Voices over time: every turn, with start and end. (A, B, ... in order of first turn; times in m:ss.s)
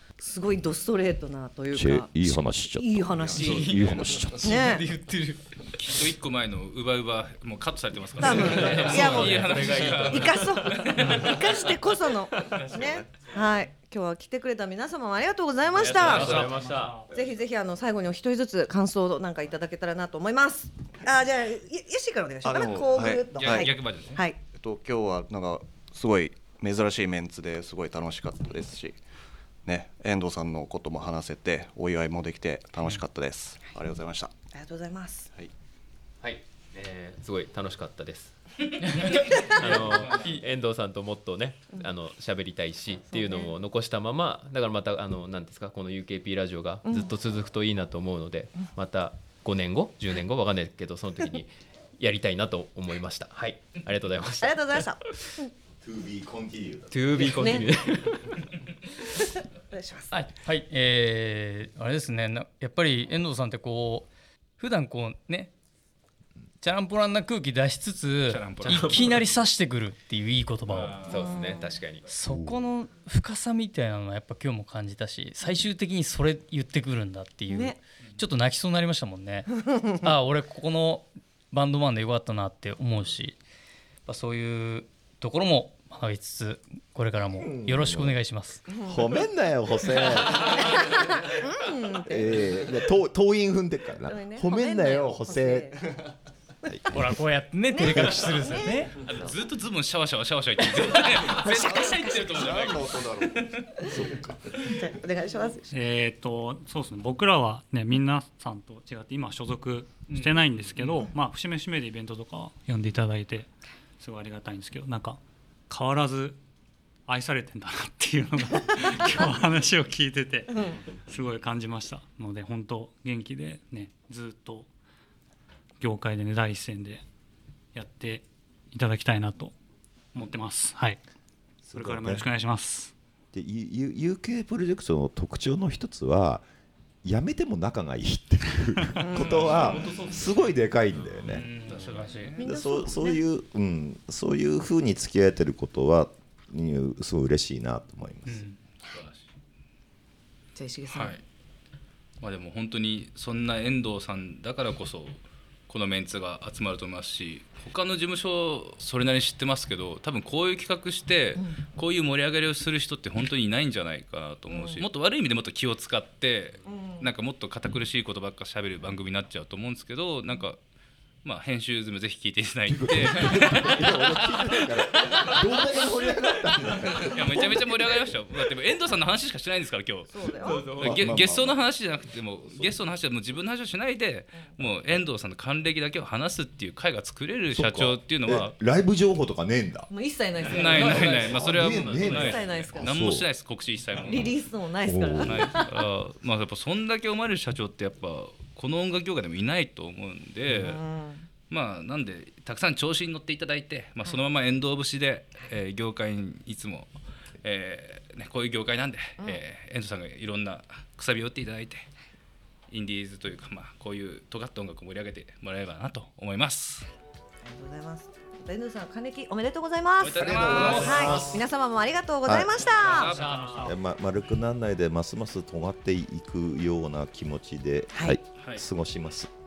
0:00.2-0:03.8 A
0:01.7-0:04.3 B
0:03.1-0:04.4 C
0:03.4-0:05.5 D
0:04.4-0:04.8 A
0:05.8-0:11.6 E
0:08.2-0:12.6 D
0:08.2-0:16.5 A
0:12.6-0:12.9 E
0:12.7-0:13.2 C
0:15.7-0:17.0 D
0:16.0-0:17.0 F
0:16.0-0:16.4 E
0:17.1-0:24.4 A
0:22.4-0:23.7 C
0:23.3-0:24.2 E
0:24.5-0:29.0 C
0:29.6-0:34.3 C
0:34.5-0:35.3 A
0:36.2-0:38.3 D
0:38.8-0:40.4 E
0:39.4-0:54.8 D
0:43.1-0:43.5 A
0:46.8-0:47.1 A
0:54.4-0:55.5 A
0:55.8-0:57.2 B
0:56.9-0:58.3 D
0:57.3-0:57.6 A
0:59.7-1:00.1 A
1:00.1-1:05.5 G
1:06.6-1:11.0 G
1:08.3-1:09.4 E
1:08.6-1:09.2 D
1:10.7-1:11.3 E
1:11.0-1:12.1 D
1:11.1-1:11.7 A
1:12.0-1:19.5 G
1:12.2-1:12.7 B
1:17.5-1:17.8 A
1:19.6-1:19.9 A
1:20.0-1:23.4 G
1:24.0-1:28.6 G
1:27.4-1:28.2 B
1:28.7-1:29.1 A
1:28.8-1:30.6 B
1:30.4-1:32.7 A
1:32.1-1:35.7 B
1:34.1-1:35.8 A
1:36.7-1:37.2 B
1:36.9-1:39.0 G
1:37.7-1:39.3 A
1:39.0-1:43.7 E
1:41.3-1:42.2 A
1:41.4-1:43.6 C
1:43.8-1:44.4 B
1:44.7-1:45.7 A
1:45.7-1:56.4 F
1:50.1-1:50.3 G
1:57.1-2:04.7 F
2:00.5-2:00.8 A
2:05.8-2:07.0 F
2:07.7-2:09.5 F
2:10.1-2:11.0 F
2:11.6-2:12.3 B
2:11.7-2:12.9 F
2:13.3-2:16.4 B
2:17.0-2:21.5 B
2:19.0-2:19.5 A
2:19.2-2:19.8 E
2:19.3-2:21.1 D
2:21.3-2:22.4 E
2:21.6-2:22.3 G
2:22.4-2:23.2 A
2:22.4-2:28.4 B
2:28.3-2:28.6 G
2:28.8-2:29.2 E
2:30.5-2:31.2 A
2:30.9-2:31.2 E
2:32.2-2:50.6 E
2:44.5-2:44.8 A
2:46.6-2:47.1 A
2:51.2-2:54.7 E
2:52.7-2:58.1 B
2:57.0-3:00.1 E
3:00.1-3:00.7 A
3:00.4-3:01.2 D
3:00.7-3:08.6 E
3:00.8-3:01.7 B
3:07.5-3:09.9 B
3:09.9-3:11.2 A
3:10.4-3:14.4 E
3:10.5-3:12.4 D
3:10.8-3:13.2 B
3:12.0-3:12.9 A
3:14.0-3:15.6 A
3:14.8-3:15.5 B
3:15.2-3:20.8 E
3:20.5-3:21.3 A
3:21.5-3:26.9 E
3:27.4-3:31.9 E
3:32.7-3:36.9 E
3:37.4-3:43.1 A
3:40.0-3:41.4 E
3:40.2-3:41.4 B
3:42.2-3:42.6 B
3:42.6-3:43.7 E
3:43.2-3:43.6 G
3:43.6-3:49.3 B
3:47.9-3:48.2 A
3:48.4-3:48.6 E